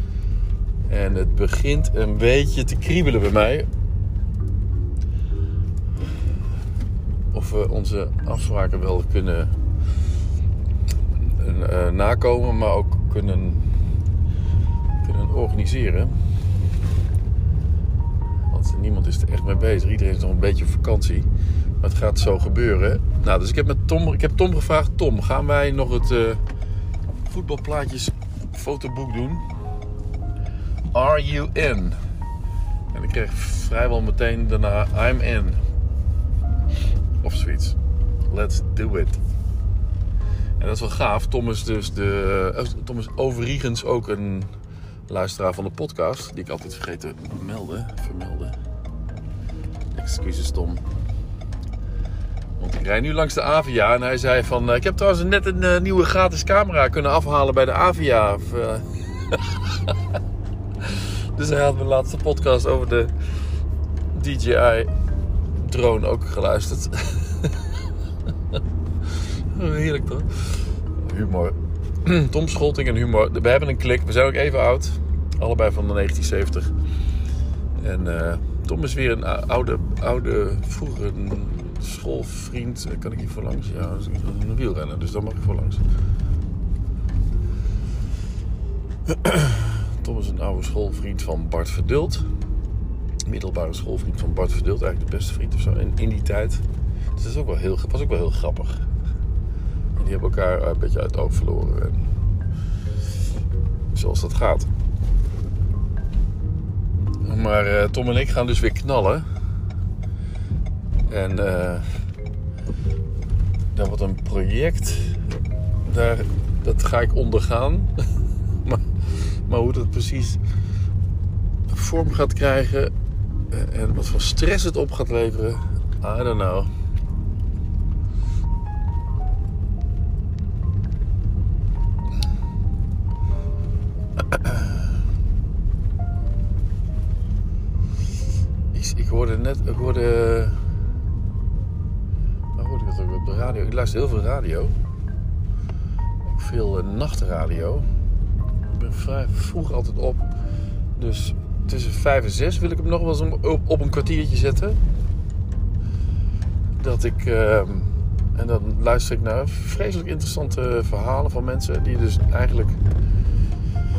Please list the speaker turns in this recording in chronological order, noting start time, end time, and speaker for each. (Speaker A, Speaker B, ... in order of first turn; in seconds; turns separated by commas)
Speaker A: 0.9-3.7, Speaker A: 7.3-9.5, Speaker A: 11.2-13.7, Speaker A: 15.0-16.1, Speaker A: 18.5-21.3, Speaker A: 21.8-26.4, Speaker A: 27.2-29.4, Speaker A: 30.9-32.0, Speaker A: 32.9-35.6, Speaker A: 37.2-37.8, Speaker A: 38.3-39.2, Speaker A: 40.6-44.5, Speaker A: 45.1-48.5, Speaker A: 49.9-50.8, Speaker A: 52.6-60.0, Speaker A: 60.8-63.1, Speaker A: 64.1-64.9, Speaker A: 65.5-67.7, Speaker A: 69.1-76.7, Speaker A: 77.8-85.8, Speaker A: 89.1-92.3, Speaker A: 93.3-96.6, Speaker A: 97.1-98.8, Speaker A: 100.0-102.1, Speaker A: 103.9-104.7, Speaker A: 107.2-109.2, Speaker A: 111.1-111.9, Speaker A: 113.7-115.3, Speaker A: 115.8-117.9, Speaker A: 118.6-120.4, Speaker A: 121.7-122.9, Speaker A: 123.5-126.7, Speaker A: 134.3-134.8, Speaker A: 138.7-140.6, Speaker A: 142.6-144.8, Speaker A: 146.2-147.9, Speaker A: 148.7-150.3, Speaker A: 151.0-154.8, Speaker A: 156.8-162.8